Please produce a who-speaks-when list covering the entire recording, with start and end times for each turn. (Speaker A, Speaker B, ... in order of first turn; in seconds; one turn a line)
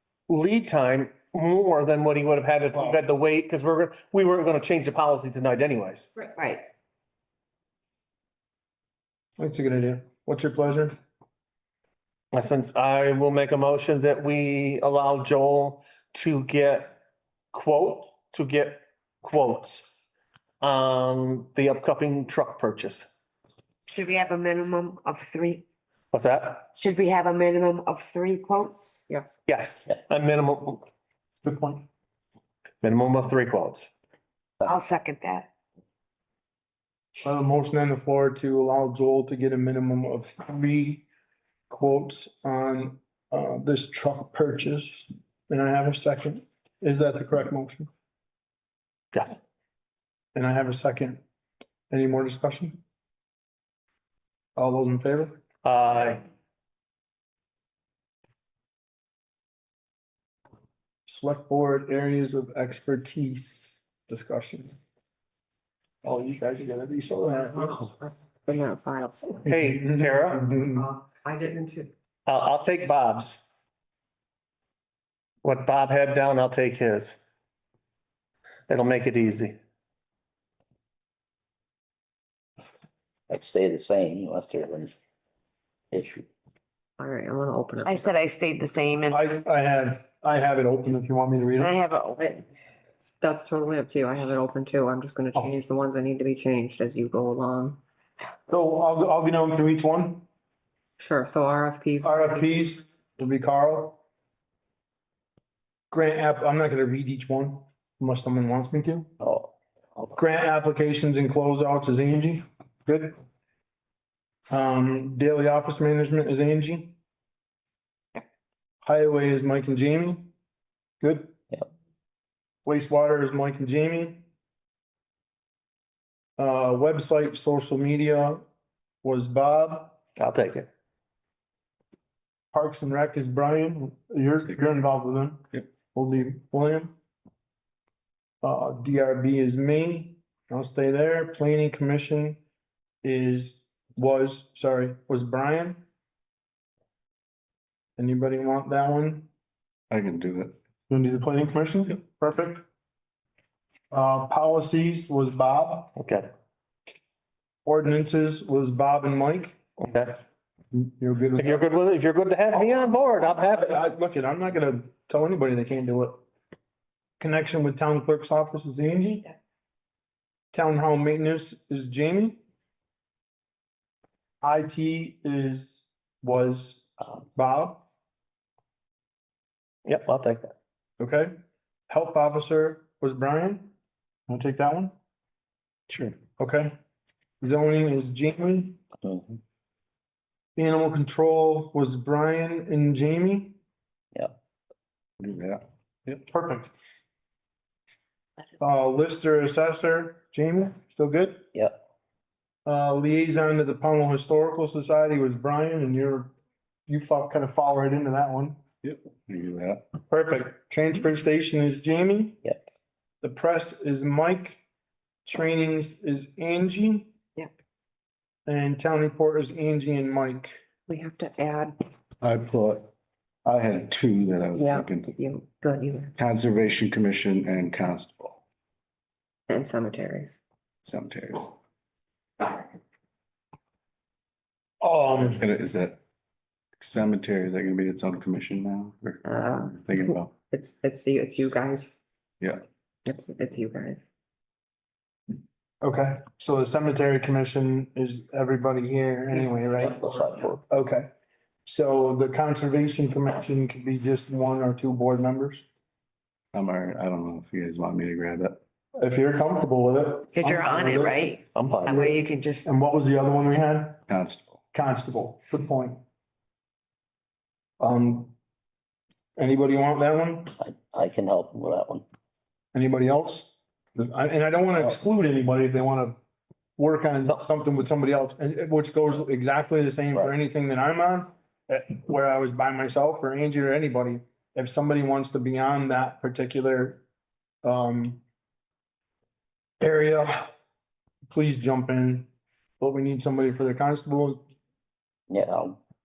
Speaker A: 0.3-6.1
Speaker B: 2.7-3.0
Speaker C: 6.2-6.7
Speaker B: 9.4-10.9
Speaker A: 12.3-16.9
Speaker A: 17.5-19.9
Speaker A: 20.6-23.1
Speaker C: 23.9-25.6
Speaker A: 26.1-26.7
Speaker C: 26.8-29.1
Speaker A: 29.5-30.9
Speaker B: 31.4-31.9
Speaker A: 32.8-33.9
Speaker C: 34.6-35.5
Speaker B: 37.2-41.0
Speaker B: 41.7-47.9
Speaker A: 49.1-49.4
Speaker B: 50.4-51.2
Speaker B: 51.9-52.8
Speaker B: 54.6-55.4
Speaker A: 55.6-56.2
Speaker B: 61.1-64.7
Speaker B: 66.0-67.9
Speaker D: 67.4-69.4
Speaker A: 69.5-70.5
Speaker B: 69.5-70.9
Speaker D: 70.5-71.9
Speaker A: 72.3-73.5
Speaker A: 75.4-77.2
Speaker A: 78.7-79.6
Speaker E: 83.3-84.9
Speaker C: 83.8-84.4
Speaker E: 85.9-86.2
Speaker D: 87.0-88.2
Speaker C: 87.9-89.2
Speaker B: 89.1-91.8
Speaker C: 91.6-92.4
Speaker D: 93.1-97.8
Speaker B: 98.5-100.2
Speaker D: 101.0-102.5
Speaker B: 102.0-104.0
Speaker B: 105.9-109.1
Speaker B: 110.1-113.2
Speaker B: 114.5-117.0
Speaker B: 118.8-120.3
Speaker B: 121.0-121.3
Speaker B: 122.7-124.3
Speaker B: 126.4-128.4
Speaker B: 129.0-130.0
Speaker A: 130.2-130.7
Speaker B: 132.5-135.4
Speaker B: 135.9-136.9
Speaker B: 138.4-142.4
Speaker B: 143.0-145.8
Speaker B: 148.0-149.3
Speaker F: 149.9-150.6
Speaker B: 150.9-152.6
Speaker B: 153.9-155.9
Speaker A: 156.0-156.3
Speaker B: 157.7-159.6
Speaker A: 159.8-160.2
Speaker B: 160.7-161.7
Speaker A: 161.4-163.8
Speaker B: 163.5-166.2
Speaker B: 167.2-169.3
Speaker B: 170.5-172.4
Speaker B: 174.4-177.8
Speaker A: 179.8-180.5
Speaker B: 181.0-181.3
Speaker B: 181.9-183.7
Speaker B: 184.3-184.9
Speaker B: 186.4-186.8
Speaker B: 187.4-188.8
Speaker B: 190.6-193.6
Speaker F: 195.2-196.2
Speaker B: 196.2-196.7
Speaker B: 198.6-201.5
Speaker B: 202.7-206.3
Speaker B: 206.9-208.6
Speaker F: 208.8-209.9
Speaker B: 210.1-212.4
Speaker B: 213.2-214.6
Speaker B: 215.2-217.1
Speaker B: 218.5-220.5
Speaker D: 220.9-221.8
Speaker F: 222.2-222.9
Speaker F: 223.4-225.2
Speaker D: 224.6-226.2
Speaker F: 226.2-228.4
Speaker D: 229.5-230.4
Speaker F: 230.8-231.6
Speaker B: 234.8-235.4
Speaker F: 235.2-236.0
Speaker F: 236.8-240.3
Speaker D: 239.2-239.8
Speaker D: 240.5-242.0
Speaker D: 243.1-244.0
Speaker B: 245.8-250.0
Speaker D: 249.3-249.8
Speaker E: 249.8-250.6
Speaker C: 249.9-250.5
Speaker B: 250.7-251.1
Speaker B: 251.7-255.7
Speaker F: 256.5-258.6
Speaker B: 259.0-261.3
Speaker C: 260.3-262.7
Speaker A: 261.6-262.1
Speaker B: 262.6-264.0
Speaker F: 264.1-264.6
Speaker B: 264.7-266.0
Speaker B: 267.8-268.3
Speaker B: 269.4-270.5
Speaker C: 270.6-271.9
Speaker B: 272.7-276.2
Speaker B: 276.8-287.0
Speaker B: 287.6-288.2
Speaker B: 289.8-290.5
Speaker B: 291.3-294.4
Speaker E: 295.3-295.8